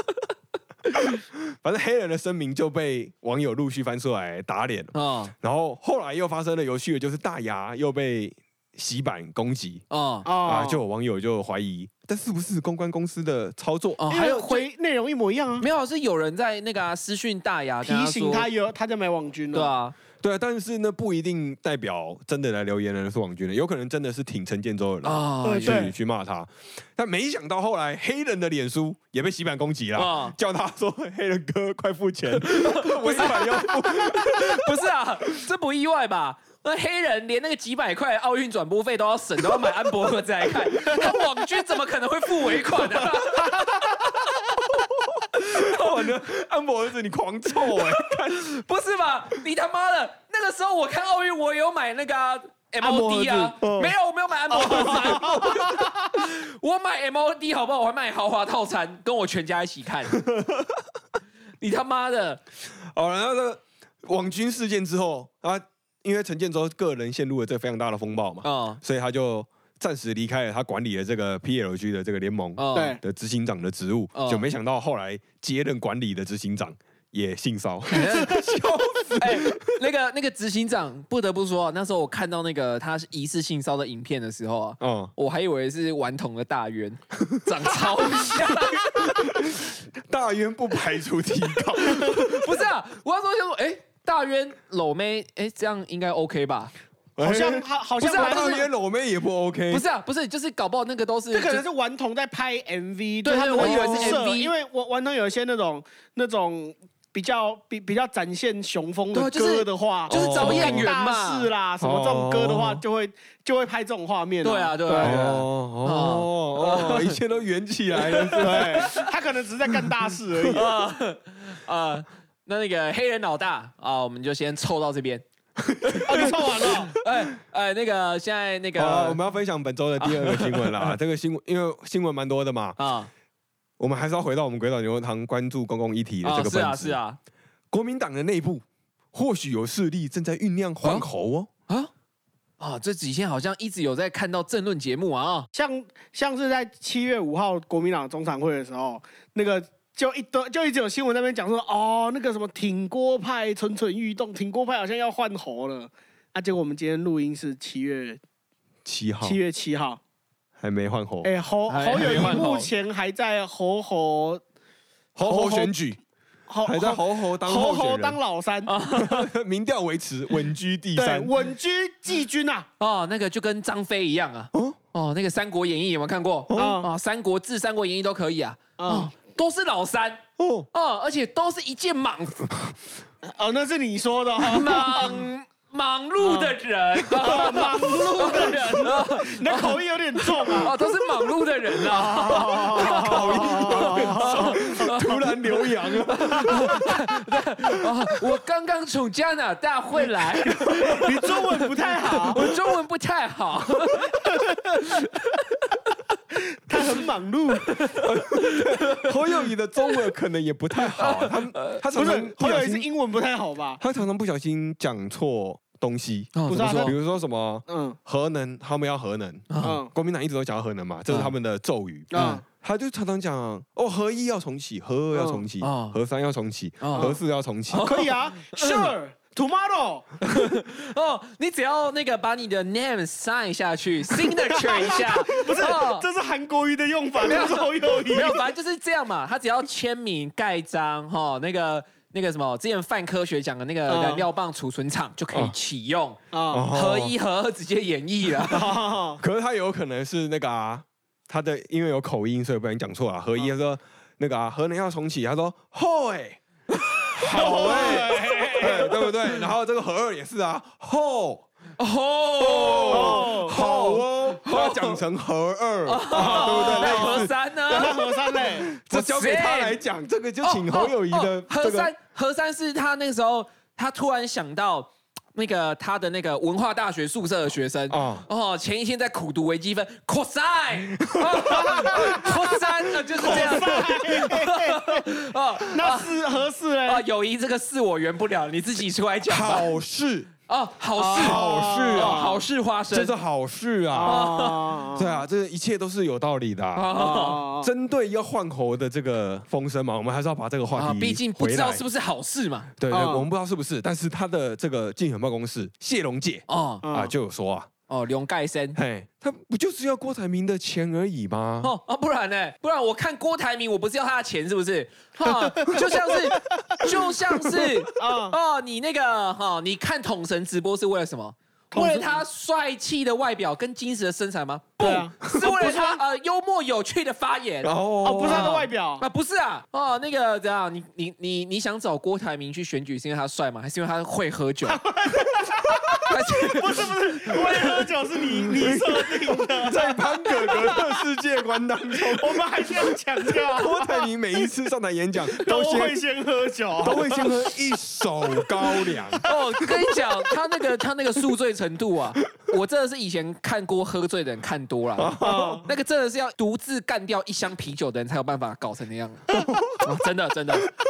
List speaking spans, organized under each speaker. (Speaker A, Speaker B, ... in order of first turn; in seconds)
Speaker A: 0.9-9.8, 10.4-14.0, 20.2-34.8, 40.7-41.4, 42.5-43.3, 43.8-48.5, 53.6-54.0, 54.6-55.6, 60.1-60.9, 62.7-79.7, 84.8-85.1, 89.0-92.5, 97.2-99.8, 103.6-104.2, 110.1-110.9, 111.8-112.8, 115.0-118.9, 125.7-126.3, 128.8-132.8, 133.8-137.0, 137.7-141.5, 158.8-159.4, 160.6-161.3, 165.2-166.0, 166.6-168.2, 168.9-171.3, 174.5-174.8, 176.5-176.8, 180.4-180.7, 192.7-197.0, 200.7-201.0, 208.0-212.9, 213.8-227.9, 246.5-247.1, 249.2-256.4, 257.2-261.5, 262.4-271.9, 277.9-278.3, 281.0-283.9, 289.3-290.3, 291.2-292.3, 292.9-296.9, 297.4-301.8, 302.8-307.7, 308.8-311.7, 327.6-328.6, 338.4-343.0, 343.5-346.0, 346.8-349.6, 355.0-355.6, 359.3-359.9
Speaker B: 4.9-5.3, 9.9-10.3, 14.0-14.7, 15.6-18.5, 19.5-19.9, 25.0-25.9, 29.9-30.4, 32.4-44.0, 45.4-46.2, 47.8-60.2, 61.6-62.4, 68.4-68.8, 72.6-73.0, 74.1-74.5, 77.9-78.5, 79.2-89.3, 91.8-96.7, 98.0-98.6, 99.7-101.7, 103.2-104.5, 109.1-111.5, 114.4-117.2, 117.9-119.1, 120.5-125.2, 125.8-129.2, 130.0-130.9, 132.8-133.1, 136.2-137.2, 142.6-145.5, 161.7-162.7, 168.7-169.3, 172.8-180.2, 180.7-182.5, 184.4-195.2, 196.1-205.6, 207.7-209.1, 210.8-211.8, 216.3-216.9, 219.5-219.8, 221.1-221.3, 222.1-222.4, 225.6-226.0, 226.8-227.1, 227.7-228.9, 230.2-236.1, 237.2-246.2, 246.7-248.8, 256.7-259.1, 261.8-265.0, 265.9-269.8, 270.4-286.2, 286.9-289.7, 290.5-293.1, 294.1-294.8, 296.8-297.4, 300.8-302.7, 306.5-306.9, 307.9-308.8, 311.6-334.8, 336.0-337.7, 349.2-360.7
Speaker C: 10.2-10.8, 14.1-15.7, 17.8-19.7, 25.4-25.9, 43.6-43.9, 52.8-53.5, 54.5-56.1, 72.7-73.0, 97.2-98.7, 101.3-115.3, 118.4-120.7, 126.0-127.0, 145.5-158.2, 159.2-160.0, 161.2-164.4, 165.2-165.7, 166.5-168.7, 171.0-172.7, 176.6-176.9, 178.8-179.1, 183.2-185.2, 186.3-190.7, 191.8-195.2, 196.3-196.8, 200.9-202.4, 204.2-205.0, 206.7-207.8, 211.9-213.8, 216.5-217.0, 217.7-218.0, 219.6-219.9, 222.1-222.4, 225.1-225.5, 227.8-230.2, 234.5-238.5, 243.9-244.3, 246.3-246.7, 248.4-249.2, 257.3-259.0, 262.9-263.9, 266.1-268.7, 281.5-282.4, 283.2-285.1, 285.6-287.0, 291.0-292.4, 293.9-295.2, 296.9-297.7, 302.9-303.3, 306.8-307.1, 318.0-318.4, 321.7-322.2, 324.8-326.0, 328.0-329.0, 334.7-340.9, 341.9-344.1, 345.4-347.6, 348.4-349.3, 355.2-355.7